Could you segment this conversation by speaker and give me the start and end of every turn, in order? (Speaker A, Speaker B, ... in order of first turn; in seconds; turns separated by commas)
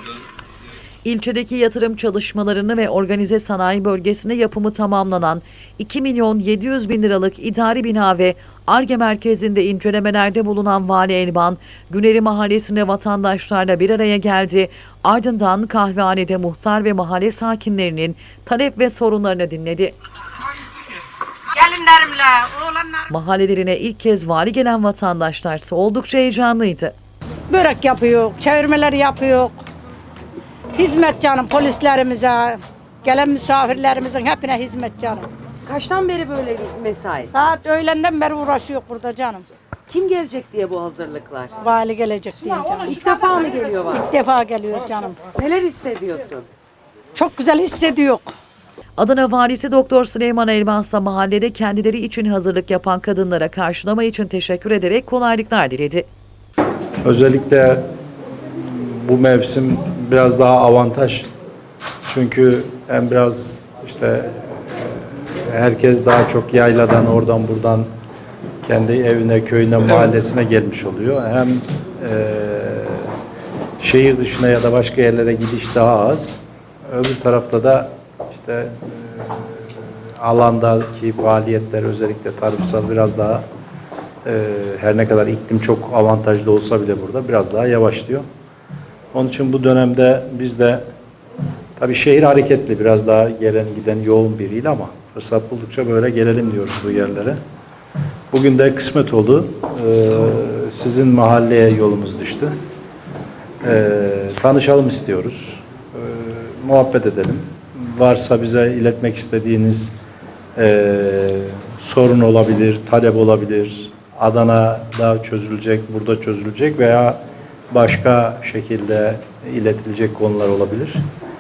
Speaker A: 1.0-19.9, Speaker B: 21.5-23.0, Speaker A: 23.1-26.9, Speaker B: 27.5-29.6, Speaker B: 30.7-35.3, Speaker C: 35.7-37.3, Speaker B: 37.3-39.4, Speaker C: 39.9-41.5, Speaker B: 41.6-43.0, Speaker C: 42.9-44.0, Speaker B: 43.9-45.3, Speaker C: 45.3-46.5, Speaker B: 47.1-48.3, Speaker A: 49.0-56.1, Speaker D: 57.0-57.9, Speaker D: 58.5-61.3, Speaker D: 62.1-67.9, Speaker D: 68.6-73.1, Speaker D: 73.8-83.4, Speaker D: 84.2-88.2, Speaker D: 89.1-90.8, Speaker D: 91.8-97.4, Speaker D: 98.3-102.5, Speaker D: 103.6-109.9, Speaker D: 110.5-117.2, Speaker D: 117.7-121.0